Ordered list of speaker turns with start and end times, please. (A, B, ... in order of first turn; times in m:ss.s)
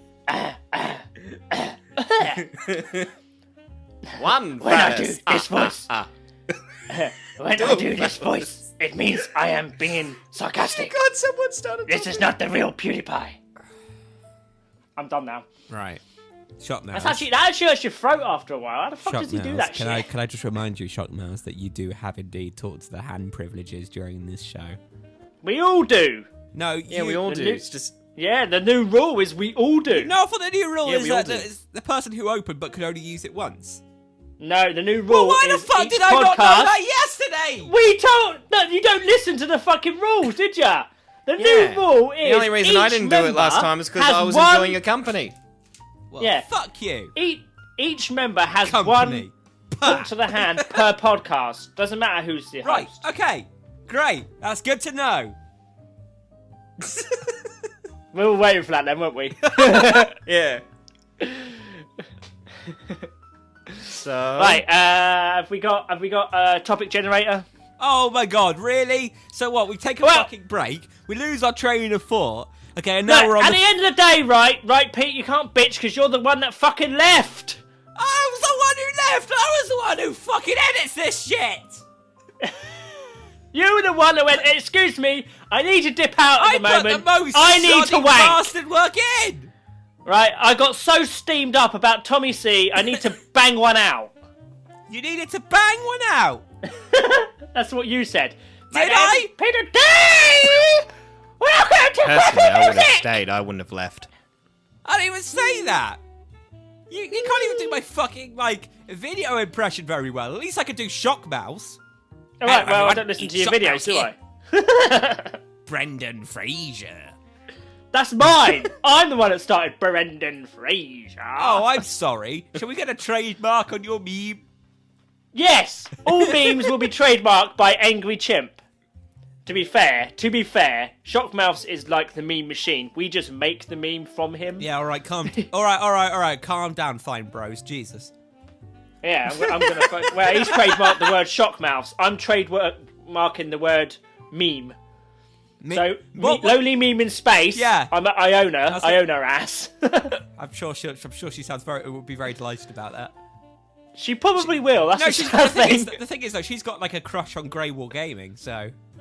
0:00.3-0:02.5 A
0:02.2-0:03.1 B
0:04.2-0:06.1 B
0:04.6-0:05.9 A
0:06.9-0:11.0 A
0:07.5-0:08.5 B
0:10.7-0:12.3 B
0:11.9-0:13.4 A
0:15.0-0:15.4 A
0:15.7-0:16.0 C
0:16.6-0:17.2 C
0:16.9-0:20.1 A
0:19.0-0:24.8 C
0:25.4-0:26.3 A
0:26.5-0:27.3 C
0:26.9-0:27.9 B
0:27.2-0:27.6 A
0:28.2-0:30.1 A
0:29.9-0:33.8 C
0:30.8-0:31.4 B
0:34.4-0:36.7 A
0:35.1-0:37.7 C
0:37.6-0:44.8 A
0:41.4-0:45.3 B
0:46.1-0:47.1 C
0:46.2-0:46.5 A
0:47.1-0:49.2 A
0:48.6-0:50.8 C
0:49.8-0:53.0 A
0:52.6-0:55.4 C
0:58.1-1:00.1 A
0:59.5-0:59.9 C
1:00.1-1:00.6 B
1:01.2-1:01.7 A
1:02.7-1:03.0 A
1:03.7-1:07.4 A
1:03.8-1:04.6 B
1:07.8-1:13.6 C
1:10.0-1:10.3 A
1:13.1-1:17.6 A
1:18.0-1:21.8 C
1:22.4-1:22.7 A
1:23.5-1:28.5 A
1:26.4-1:29.5 C
1:30.0-1:34.1 A
1:34.9-1:36.4 C
1:36.7-1:40.9 A
1:38.7-1:39.3 C
1:41.4-1:43.0 A
1:42.0-1:44.1 B
1:44.8-1:46.0 C
1:46.9-1:51.8 C
1:52.4-1:55.4 A
1:52.4-1:54.1 C
1:55.6-1:57.2 C
1:57.9-2:01.7 A
2:01.4-2:04.4 C
2:05.3-2:08.6 A
2:09.4-2:14.7 A
2:14.6-2:18.1 C
2:19.0-2:24.8 A
2:19.3-2:21.1 C
2:25.6-2:26.6 C
2:25.7-2:30.2 A
2:27.5-2:27.9 C
2:28.7-2:29.0 C
2:30.4-2:33.1 C
2:34.0-2:36.0 A
2:34.4-2:38.7 C